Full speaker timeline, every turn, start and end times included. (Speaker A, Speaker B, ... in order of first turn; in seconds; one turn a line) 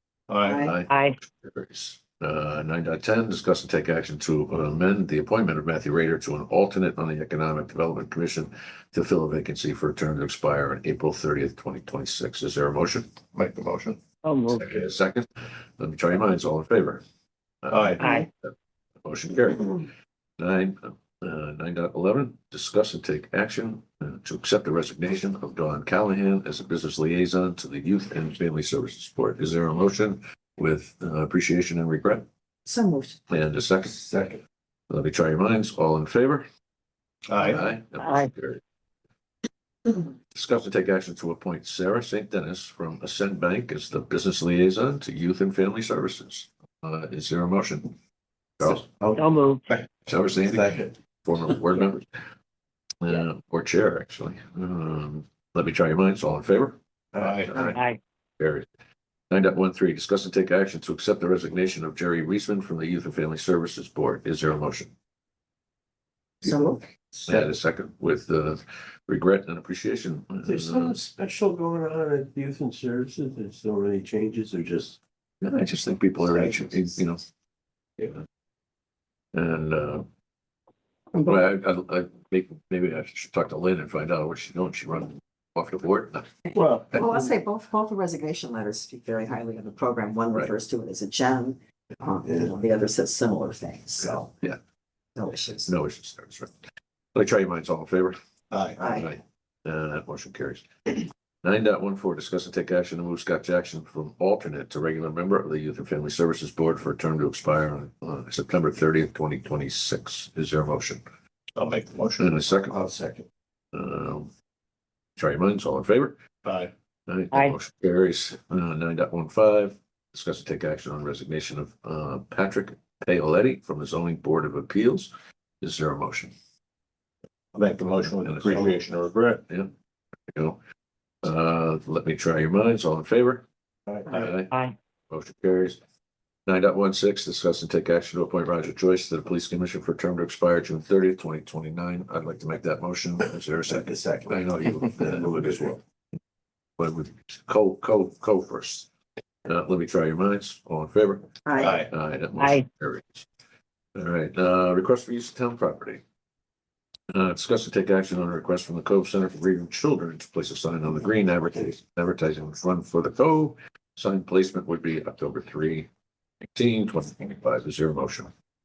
Speaker A: 0.3-0.6
Speaker B: 0.5-0.8
Speaker C: 0.6-13.2
Speaker D: 0.9-1.2
Speaker A: 13.3-14.0
Speaker D: 14.2-14.6
Speaker C: 14.5-15.3
Speaker C: 15.8-17.0
Speaker C: 17.6-18.5
Speaker A: 17.7-18.0
Speaker D: 18.0-18.3
Speaker C: 19.1-19.9
Speaker C: 20.4-32.2
Speaker B: 32.6-33.2
Speaker C: 33.3-34.0
Speaker E: 34.1-34.4
Speaker C: 34.9-36.5
Speaker A: 37.3-37.6
Speaker C: 37.4-38.6
Speaker D: 38.0-38.3
Speaker C: 40.3-48.0
Speaker C: 48.6-48.8
Speaker E: 48.6-49.8
Speaker D: 49.1-49.6
Speaker C: 50.1-52.1
Speaker E: 50.4-50.9
Speaker C: 53.0-57.8
Speaker A: 57.2-57.5
Speaker D: 57.7-58.0
Speaker C: 58.4-58.7
Speaker C: 59.3-64.9
Speaker B: 66.4-66.8
Speaker E: 67.1-67.5
Speaker C: 67.3-71.0
Speaker E: 70.4-75.0
Speaker C: 75.4-77.2
Speaker E: 76.3-76.6
Speaker C: 79.3-80.1
Speaker B: 81.1-81.4
Speaker C: 81.2-86.3
Speaker B: 86.5-94.3
Speaker E: 86.5-87.0
Speaker C: 94.0-94.6
Speaker B: 95.2-95.7
Speaker C: 95.7-96.5
Speaker C: 97.2-98.2
Speaker A: 98.5-98.8
Speaker B: 98.8-99.1
Speaker C: 98.9-111.0
Speaker A: 111.6-112.4
Speaker C: 112.2-112.7
Speaker E: 112.7-113.2
Speaker C: 113.7-114.3
Speaker C: 115.2-116.2
Speaker A: 116.5-116.7
Speaker C: 117.1-126.3
Speaker A: 127.5-129.4
Speaker C: 128.1-128.8
Speaker C: 129.4-129.7
Speaker C: 130.3-130.6
Speaker C: 131.2-133.5
Speaker C: 134.1-134.5
Speaker D: 134.5-134.8
Speaker C: 135.1-135.8
Speaker C: 136.5-145.8
Speaker E: 143.7-144.3
Speaker E: 145.0-145.3
Speaker C: 146.8-148.9
Speaker C: 149.4-153.3
Speaker B: 151.5-151.8
Speaker A: 151.6-151.9
Speaker C: 153.9-156.0
Speaker C: 157.1-165.9
Speaker C: 166.5-168.3